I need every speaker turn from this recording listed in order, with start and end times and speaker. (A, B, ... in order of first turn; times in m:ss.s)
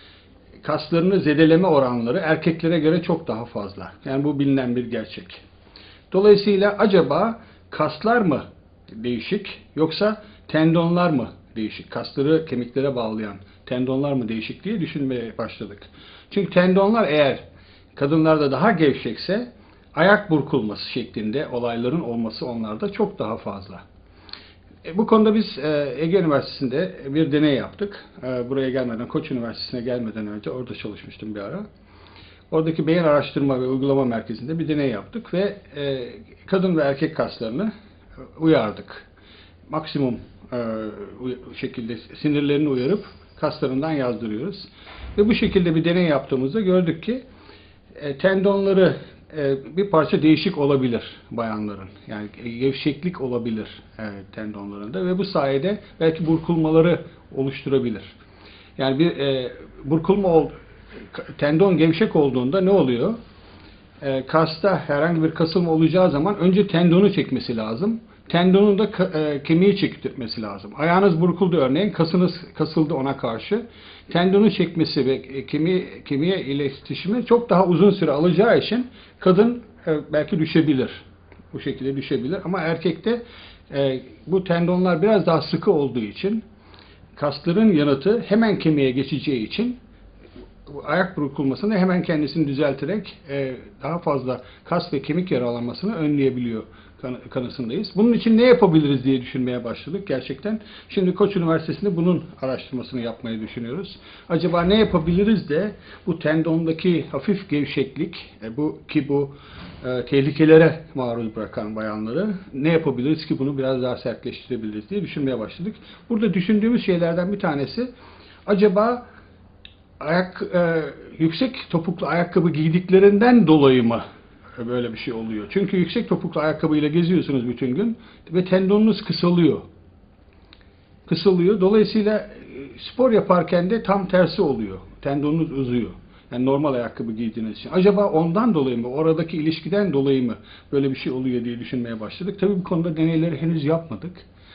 0:00.6-0:05.4 A
0:06.1-0:17.4 A
0:18.0-0:23.8 A
0:24.8-0:31.7 A
0:32.5-0:37.7 A
0:38.4-0:39.1 A
0:39.7-0:47.2 A
0:48.0-0:58.1 A
0:58.8-1:00.5 A
1:01.1-1:03.2 A
1:04.0-1:26.4 A
1:27.2-1:29.8 A
1:30.7-1:57.9 A
1:58.5-1:59.0 A
2:00.0-2:04.0 A
2:04.6-2:09.7 A
2:11.1-2:24.2 A